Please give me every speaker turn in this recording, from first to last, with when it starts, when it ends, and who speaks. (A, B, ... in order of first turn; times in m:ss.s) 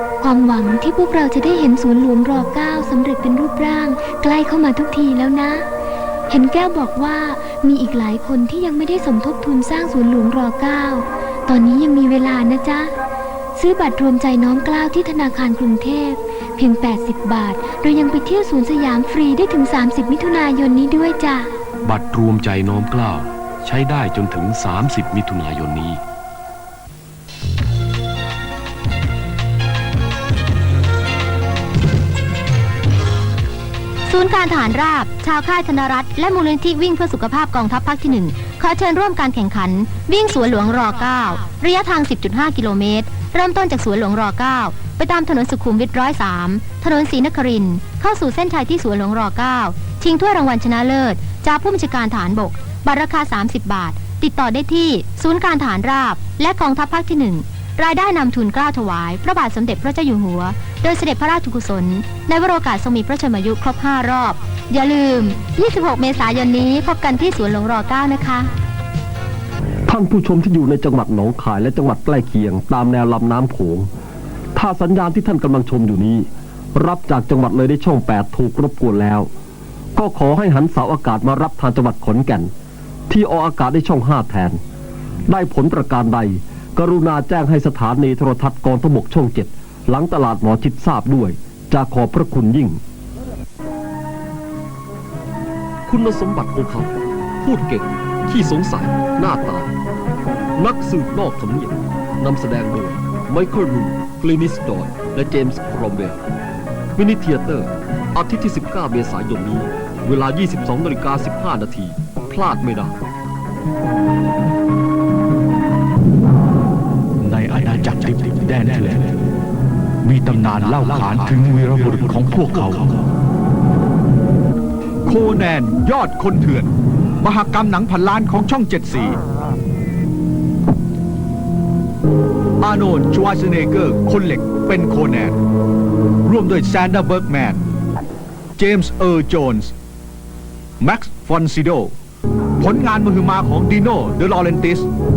0:00.2-0:05.6 A
0:06.3-0:12.9 A
0:13.6-0:21.5 A
0:21.8-0:26.0 B
0:34.1-1:08.5 C
1:09.9-1:13.9 D
1:14.5-1:19.3 D
1:20.0-1:22.5 D
1:23.1-1:24.6 D
1:25.3-1:32.8 D
1:35.9-1:39.7 D
1:40.6-1:46.2 D
1:47.0-1:53.0 D
1:57.2-1:59.2 E
2:00.0-2:03.0 E
2:00.6-2:02.8 F
2:05.0-2:06.7 F
2:07.2-2:09.2 F
2:12.6-2:15.4 F
2:16.2-2:17.6 F
2:18.6-2:19.7 F
2:20.8-2:21.9 F
2:22.6-2:24.9 F